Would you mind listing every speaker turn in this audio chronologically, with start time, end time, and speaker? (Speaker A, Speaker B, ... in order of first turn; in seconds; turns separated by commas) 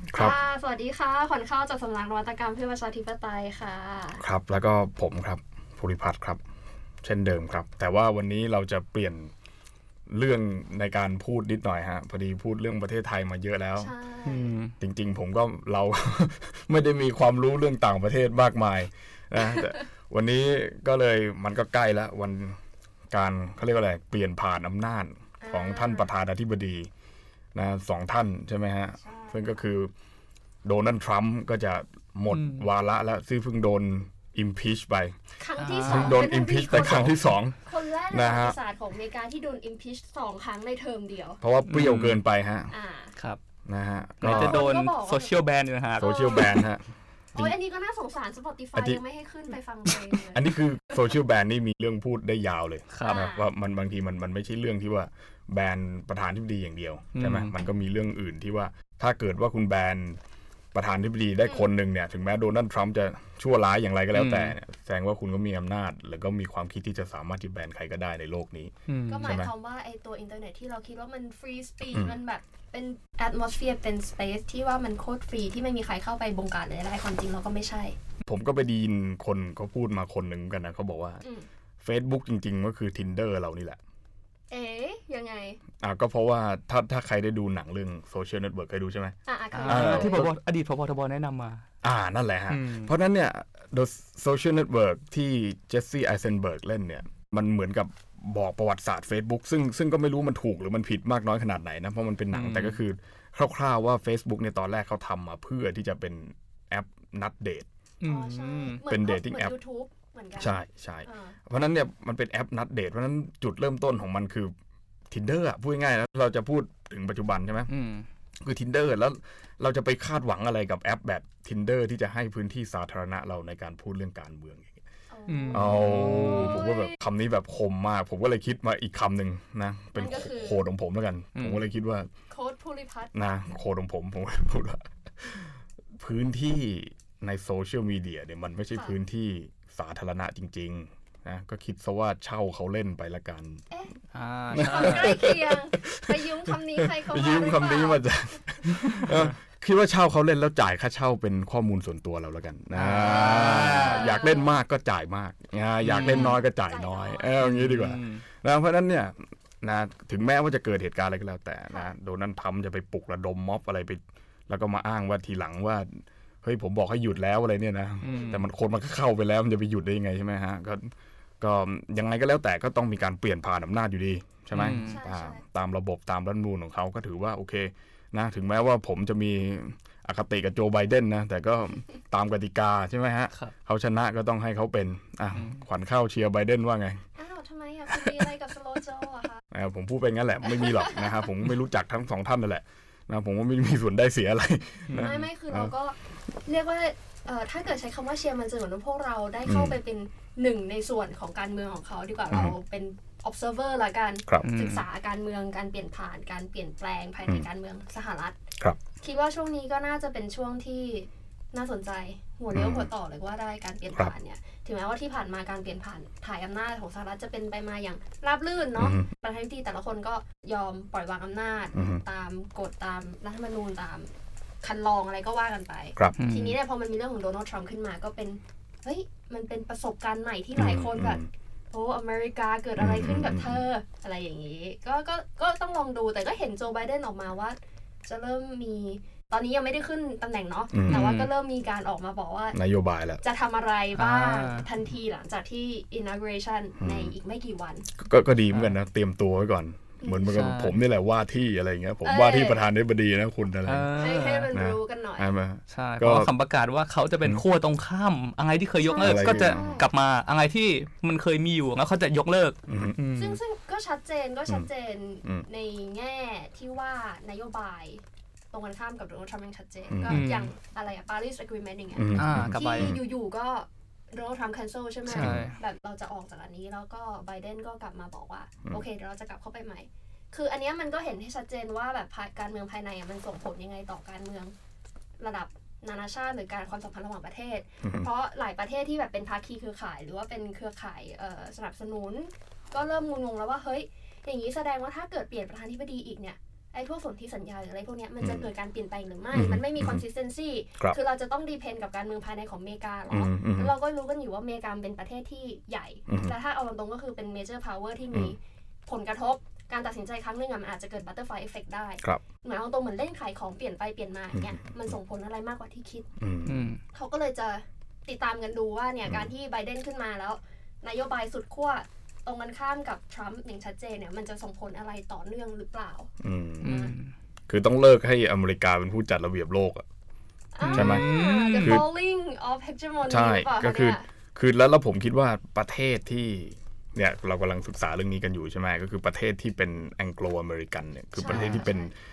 Speaker A: 0.1-4.2, Speaker B: 4.2-6.4, Speaker B: 7.0-9.3, Speaker B: 10.1-13.9, Speaker A: 13.8-14.6, Speaker C: 14.2-14.7, Speaker B: 14.8-22.6, Speaker B: 23.1-26.9, Speaker A: 25.4-26.1, Speaker B: 27.5-29.9, Speaker A: 29.0-29.6, Speaker B: 30.6-35.2, Speaker C: 32.3-32.6, Speaker A: 35.4-41.4, Speaker C: 35.6-36.2, Speaker B: 35.8-37.6, Speaker B: 38.1-38.5, Speaker B: 41.4-42.7, Speaker C: 41.7-42.2, Speaker A: 42.7-43.1, Speaker B: 43.7-44.6, Speaker C: 44.2-46.1, Speaker A: 44.2-45.4, Speaker B: 46.0-46.8, Speaker A: 46.0-46.6, Speaker A: 47.3-50.5, Speaker B: 48.8-49.0, Speaker B: 50.3-60.2, Speaker C: 52.9-53.2, Speaker A: 53.0-53.5, Speaker C: 57.1-57.5, Speaker B: 60.7-69.5, Speaker C: 64.1-64.5, Speaker C: 68.9-69.2, Speaker A: 69.1-78.0, Speaker B: 78.2-81.2, Speaker B: 81.8-83.8, Speaker A: 84.5-85.6, Speaker B: 85.8-90.3, Speaker A: 89.2-90.3, Speaker C: 89.5-91.6, Speaker B: 91.8-107.7, Speaker C: 92.5-92.9, Speaker C: 102.3-102.8, Speaker C: 108.0-108.8, Speaker A: 108.0-111.4, Speaker B: 108.8-109.5, Speaker B: 110.4-114.5, Speaker B: 115.1-117.7, Speaker C: 117.7-118.0, Speaker B: 118.4-124.8, Speaker A: 125.1-127.0, Speaker C: 125.3-126.6, Speaker B: 125.5-132.1, Speaker A: 129.9-130.6, Speaker C: 131.4-131.6, Speaker A: 132.3-133.1, Speaker B: 133.1-143.6, Speaker C: 144.1-145.1, Speaker B: 144.5-187.0, Speaker A: 144.5-148.0, Speaker C: 148.8-149.3, Speaker C: 152.7-154.1, Speaker A: 153.0-154.5, Speaker C: 155.8-156.4, Speaker A: 155.9-157.3, Speaker C: 157.4-158.2, Speaker C: 168.0-168.4, Speaker A: 168.0-168.4, Speaker C: 174.5-175.0, Speaker A: 174.7-175.4, Speaker C: 185.3-185.6, Speaker A: 187.2-189.4, Speaker B: 189.5-195.7, Speaker A: 190.4-191.1, Speaker C: 194.9-195.2, Speaker A: 195.0-208.4, Speaker B: 199.4-199.8, Speaker C: 204.4-204.8, Speaker A: 209.0-224.1, Speaker B: 212.5-212.9, Speaker B: 218.8-219.1, Speaker B: 221.7-222.0, Speaker A: 224.6-242.6, Speaker C: 226.2-226.5, Speaker B: 230.6-231.2, Speaker B: 232.8-233.6, Speaker B: 240.7-241.1, Speaker C: 240.9-241.3, Speaker B: 242.5-243.2, Speaker A: 243.2-247.9, Speaker C: 244.0-244.7, Speaker B: 246.8-247.1, Speaker B: 248.0-253.9, Speaker A: 250.0-250.4, Speaker C: 250.2-250.8, Speaker A: 252.0-252.7, Speaker C: 253.6-254.5, Speaker A: 253.9-255.3, Speaker B: 254.5-256.3, Speaker C: 255.7-263.4, Speaker A: 258.8-259.9, Speaker B: 259.0-259.8, Speaker B: 262.7-263.0, Speaker A: 263.1-284.5, Speaker B: 269.9-270.3, Speaker C: 270.1-270.5, Speaker B: 271.9-273.0, Speaker C: 272.1-272.9, Speaker C: 275.1-275.5, Speaker B: 275.1-275.5, Speaker A: 285.2-316.1, Speaker B: 298.2-298.4, Speaker B: 299.3-300.0, Speaker B: 303.1-303.7, Speaker B: 306.1-306.3, Speaker B: 316.2-316.7, Speaker C: 316.4-316.8, Speaker A: 316.9-326.1, Speaker B: 326.2-326.7, Speaker C: 326.6-327.1, Speaker A: 326.6-326.9, Speaker B: 327.5-329.8, Speaker A: 330.5-334.0, Speaker C: 330.6-331.8, Speaker B: 330.7-331.1, Speaker B: 331.6-331.8, Speaker B: 333.1-341.9, Speaker A: 341.1-341.9, Speaker C: 341.3-341.6